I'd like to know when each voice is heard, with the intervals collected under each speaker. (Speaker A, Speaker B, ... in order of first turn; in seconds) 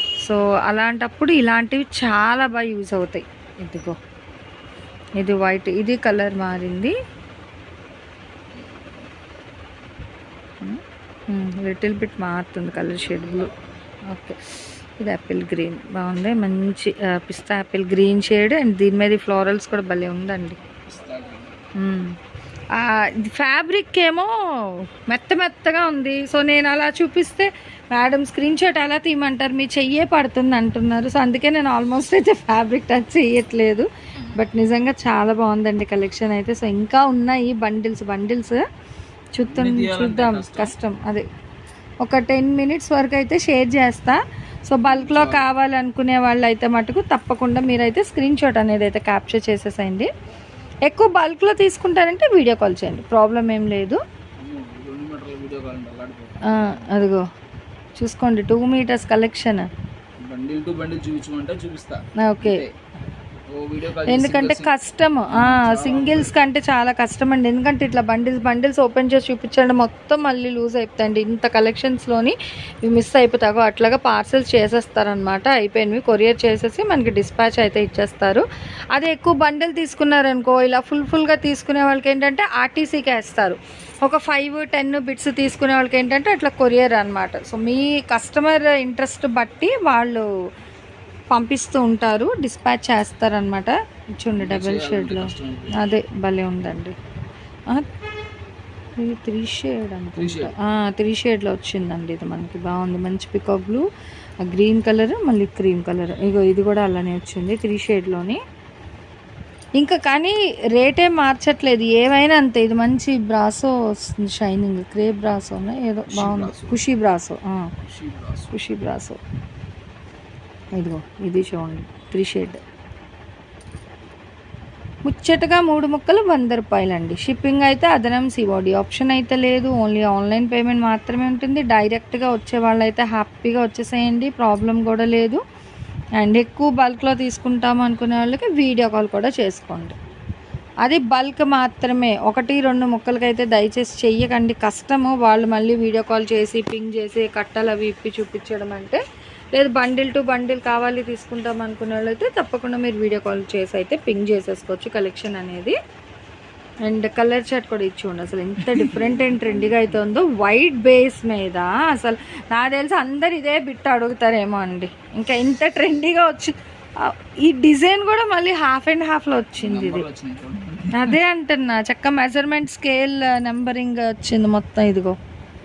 Speaker A: 0.2-4.0, 5.2-6.9, 10.6-13.5, 14.1-20.6, 21.8-22.1, 22.7-38.6, 39.3-41.2, 42.0-50.1, 50.9-54.0, 56.4-57.2, 58.0-59.7, 62.2-62.6, 64.0-78.4, 78.9-90.2, 91.3-97.0, 99.0-103.8, 104.4-108.4, 109.8-117.7, 118.5-119.2, 120.7-122.6, 125.0-135.4, 136.2-139.9, 140.8-149.0, 149.5-155.7, 156.8-170.1, 170.9-175.2
Speaker B: 12.8-13.5, 20.9-21.6, 34.1-34.4, 39.4-40.7, 44.8-45.5, 54.4-56.9, 60.2-62.7, 63.5-64.7, 65.3-66.4, 94.3-95.8, 100.2-100.5, 116.1-116.8, 117.8-118.5, 158.6-160.0, 169.6-171.2